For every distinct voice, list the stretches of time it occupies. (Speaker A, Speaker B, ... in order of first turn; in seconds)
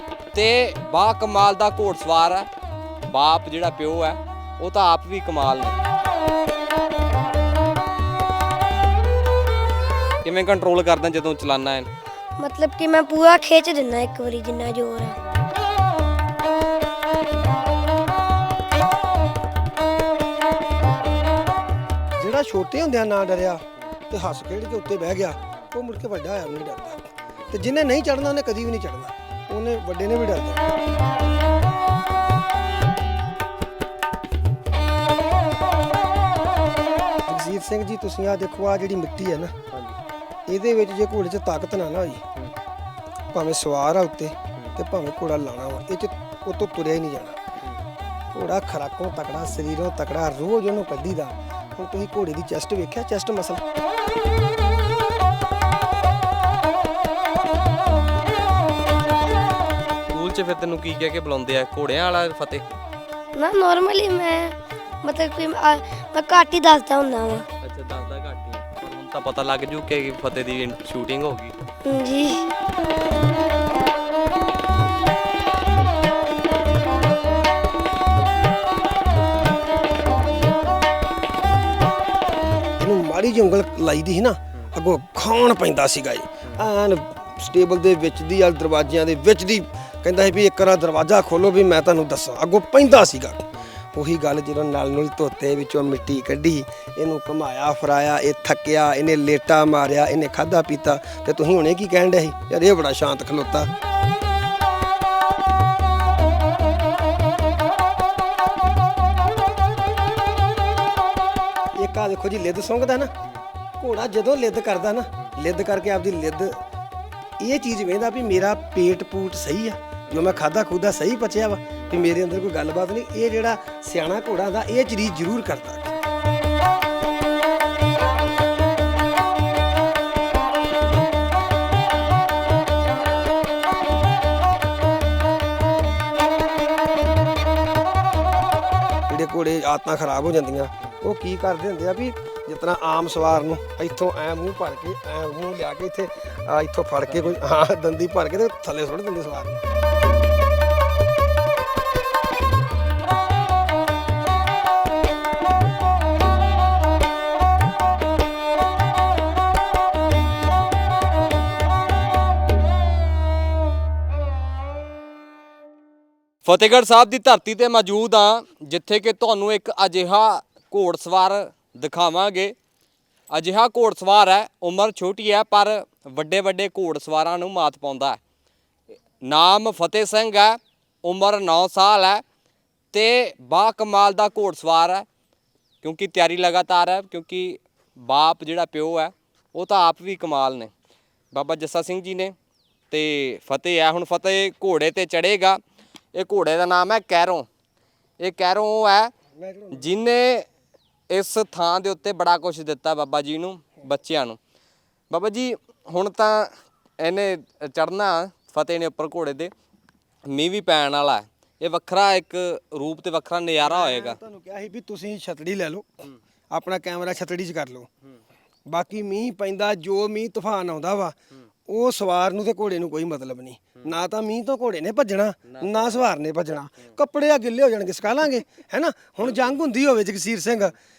Speaker A: 0.3-2.5, 3.1-5.8, 10.2-11.9, 27.3-27.5, 39.7-40.0, 60.1-62.7, 67.6-71.5, 86.4-86.7, 120.1-120.5, 121.8-122.0, 147.1-147.5, 166.4-172.6, 173.3-178.2, 179.2-182.2, 182.9-185.1, 185.8-190.7, 191.3-192.3, 192.9-195.6, 196.1-197.5, 198.2-199.1, 199.7-200.5, 201.1-204.4, 205.1-209.5, 210.3-214.2, 225.4-226.1, 229.2-229.6
Speaker B: 12.4-15.2, 63.4-67.5, 71.8-72.5
Speaker C: 22.2-30.7, 37.3-39.6, 40.5-42.2, 43.3-47.4, 48.3-53.6, 82.8-103.7, 111.8-113.1, 113.8-116.6, 117.4-126.0, 139.1-149.6, 199.3-200.0, 213.6-217.9, 218.7-221.2, 221.7-230.8